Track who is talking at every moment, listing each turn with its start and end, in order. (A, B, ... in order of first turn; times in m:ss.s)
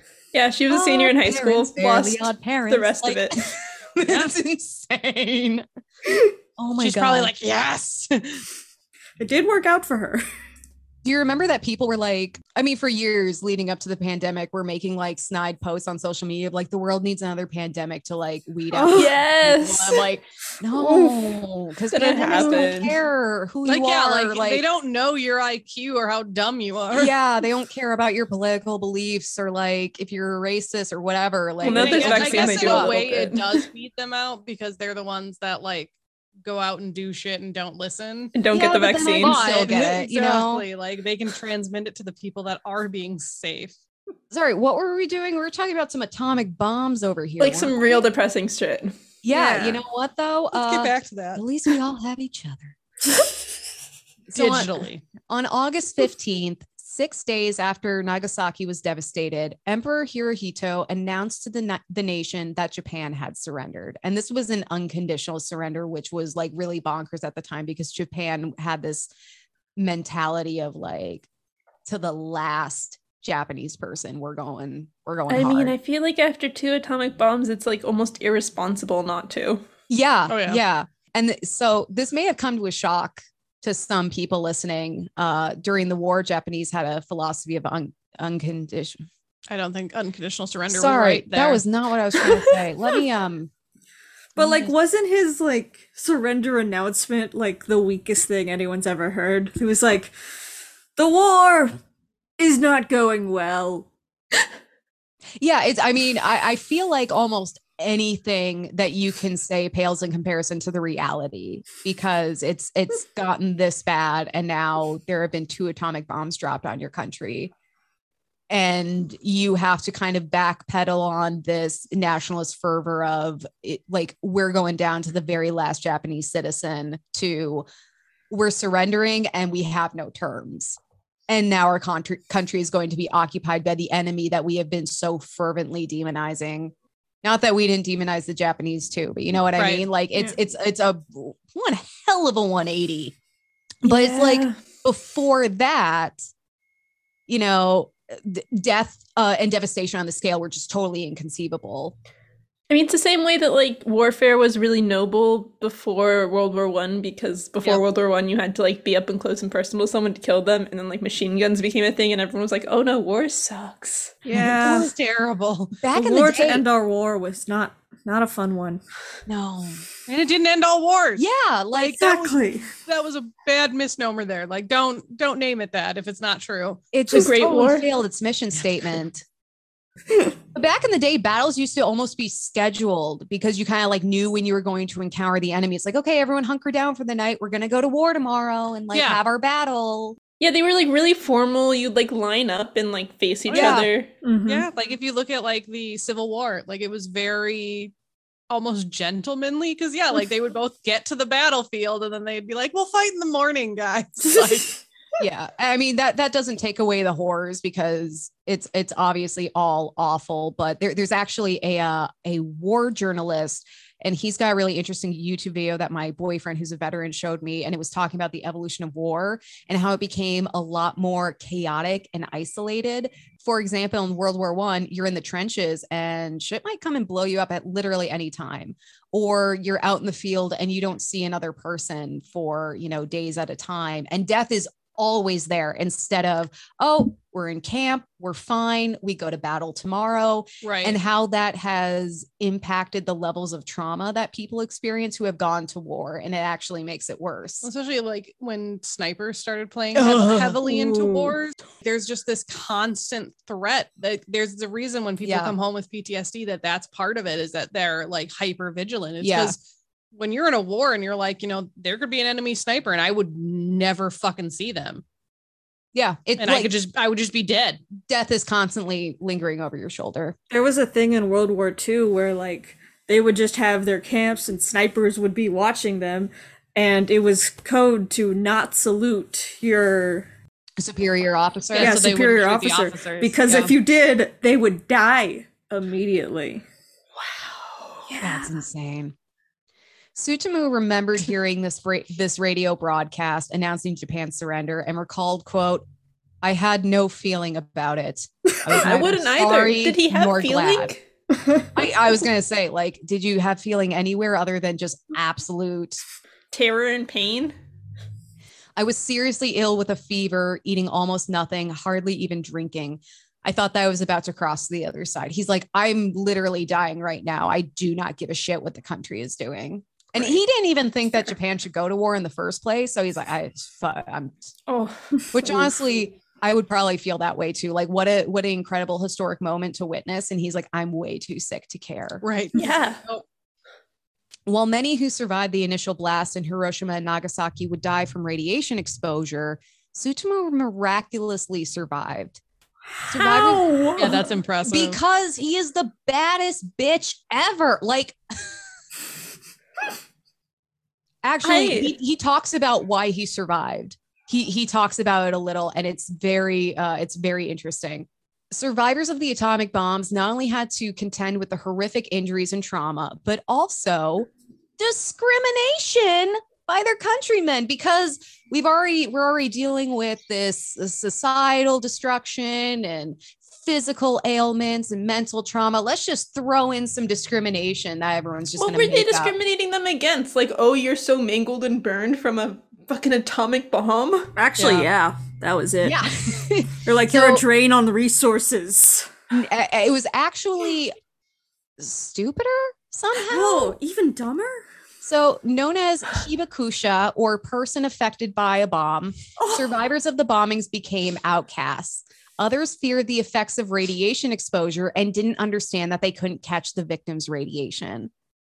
0:00.3-0:03.4 A
0:00.7-0:07.3 B
0:04.0-0:04.4 C
0:06.8-0:08.4 C
0:09.2-0:10.2 D
0:11.0-0:24.6 B
0:18.7-0:19.2 D
0:18.9-0:20.1 A
0:20.7-0:23.0 A
0:23.7-0:27.1 C
0:26.9-0:33.0 B
0:31.6-0:33.7 A
0:31.6-0:35.9 C
0:36.4-0:38.4 C
0:38.4-0:39.5 A
0:38.5-0:40.7 B
0:39.0-0:43.8 C
0:44.3-0:48.0 B
0:47.4-0:49.0 A
0:49.2-0:52.8 B
0:49.3-0:49.8 D
0:50.5-0:51.4 C
0:54.3-1:09.1 B
0:54.3-0:55.0 C
1:09.8-1:11.3 B
1:11.9-1:15.8 B
1:15.3-1:19.6 A
1:19.9-1:29.0 B
1:20.3-1:20.6 C
1:29.5-1:31.6 C
1:30.7-1:33.5 B
1:34.4-1:40.1 D
1:34.4-1:34.7 C
1:41.0-1:41.8 D
1:42.4-1:43.9 D
1:45.4-1:57.5 B
1:58.5-2:07.6 B
2:08.3-2:10.8 B
2:11.3-2:23.2 B
2:19.6-2:19.8 C
2:23.8-2:26.2 B
2:23.9-2:24.5 A
2:27.3-2:32.0 B
2:32.7-2:44.2 A
2:44.2-2:44.9 D
2:44.3-2:45.8 C
2:45.7-2:46.6 B
2:45.9-2:48.8 D
2:49.3-2:49.8 B
2:50.1-2:51.3 C
2:51.2-2:52.3 B
2:51.8-2:52.7 D
2:52.8-2:56.8 C
2:56.9-2:59.2 B
2:57.1-2:57.9 A
3:00.5-3:10.2 B
3:08.9-3:09.2 C
3:10.4-3:14.1 A
3:13.5-3:13.8 C
3:13.5-3:13.9 B
3:14.2-3:14.7 D
3:14.5-3:17.9 C
3:18.5-3:24.8 C
3:25.2-4:07.7 B
4:00.6-4:01.0 C
4:07.6-4:19.6 C
4:10.0-4:11.4 B
4:15.2-4:15.6 B
4:19.2-4:19.6 B
4:20.1-4:25.0 C
4:25.9-4:26.7 B
4:26.4-4:27.8 C
4:28.0-4:30.4 B
4:30.5-4:40.3 D
4:40.8-4:42.6 B
4:41.7-4:43.7 C
4:41.8-4:46.6 D
4:48.1-4:48.5 D
4:48.2-4:49.2 B
4:50.2-4:55.8 B
4:56.4-5:00.9 B
4:58.7-5:01.0 A
5:01.7-5:06.0 B
5:06.5-5:07.6 A
5:08.8-5:24.5 B
5:24.7-5:25.6 A
5:25.3-5:32.2 B
5:32.2-5:32.6 C
5:32.6-5:33.0 A
5:34.5-5:42.4 B
5:43.1-5:44.3 A
5:43.1-5:43.7 B
5:44.0-5:45.0 C
5:44.6-5:48.6 B
5:51.2-6:19.3 B
5:51.4-5:51.9 A
6:18.6-6:24.3 A
6:24.4-6:26.0 D
6:24.6-6:24.9 C
6:25.8-6:27.4 B
6:26.8-6:29.1 D
6:29.3-6:30.9 B
6:31.8-6:33.8 B
6:33.2-6:34.7 D
6:35.0-6:48.1 B